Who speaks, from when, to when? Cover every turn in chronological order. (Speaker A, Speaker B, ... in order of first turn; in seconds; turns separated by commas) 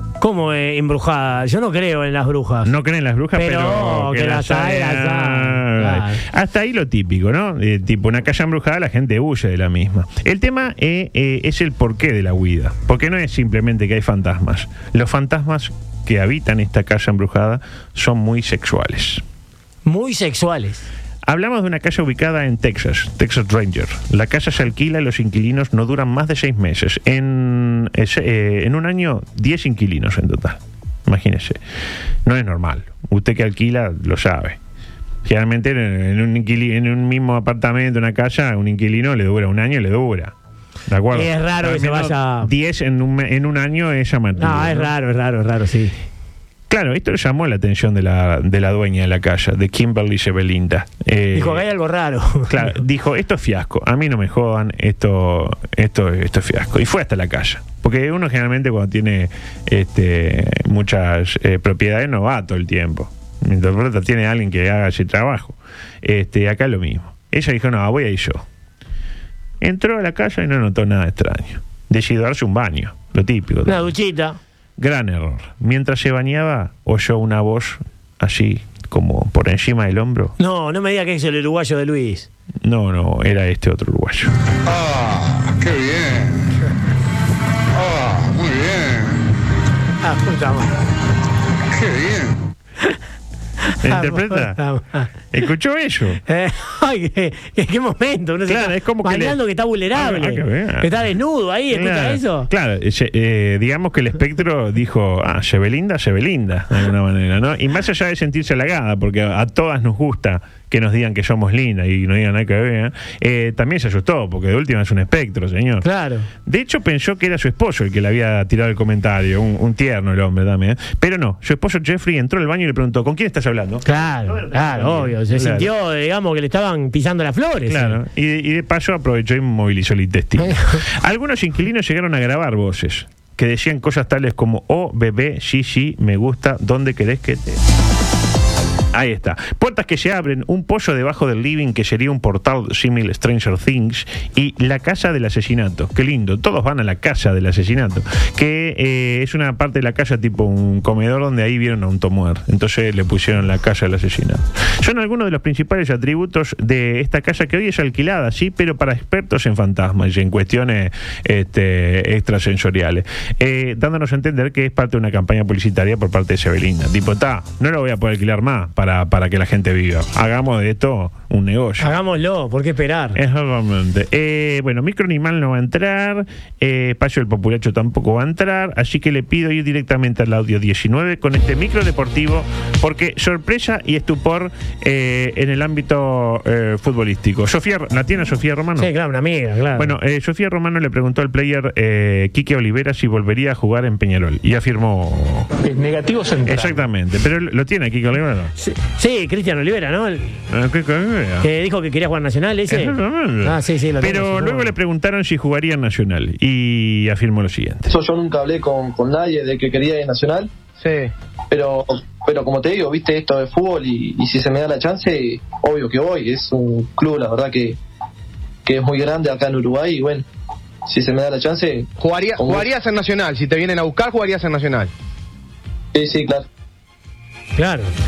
Speaker A: 0.2-2.7, Speaker B: 2.6-19.2, Speaker A: 3.3-6.2, Speaker A: 19.9-20.9, Speaker B: 21.3-31.6, Speaker B: 32.2-34.6, Speaker B: 35.2-40.3, Speaker B: 40.9-44.9, Speaker A: 41.1-42.5, Speaker A: 44.4-45.9, Speaker B: 46.7-51.6, Speaker A: 51.3-52.8, Speaker B: 52.5-68.4, Speaker B: 69.6-73.9, Speaker A: 73.7-74.4, Speaker B: 74.8-80.3, Speaker A: 80.4-82.3, Speaker B: 82.6-84.3, Speaker C: 84.7-86.2, Speaker C: 87.8-89.0, Speaker A: 90.0-90.7, Speaker C: 91.8-92.2, Speaker A: 93.6-95.1, Speaker B: 93.8-94.6, Speaker B: 95.3-96.2, Speaker A: 96.2-102.5, Speaker B: 98.5-99.4, Speaker B: 99.9-101.1, Speaker B: 101.7-115.8, Speaker A: 115.8-116.3, Speaker B: 116.4-125.7, Speaker A: 123.8-128.0, Speaker B: 127.7-137.6, Speaker A: 130.4-130.8, Speaker B: 138.9-171.9, Speaker A: 171.8-173.2, Speaker B: 173.2-188.9, Speaker A: 188.8-189.9, Speaker B: 189.7-195.5, Speaker B: 196.4-198.5, Speaker A: 198.6-200.3, Speaker B: 200.5-201.5, Speaker A: 201.4-204.7, Speaker B: 202.7-207.9, Speaker D: 207.9-210.5, Speaker E: 210.8-211.1, Speaker D: 211.5-217.8, Speaker D: 218.7-220.2, Speaker D: 220.9-222.7, Speaker E: 222.0-224.9, Speaker D: 225.9-226.4, Speaker A: 227.6-227.9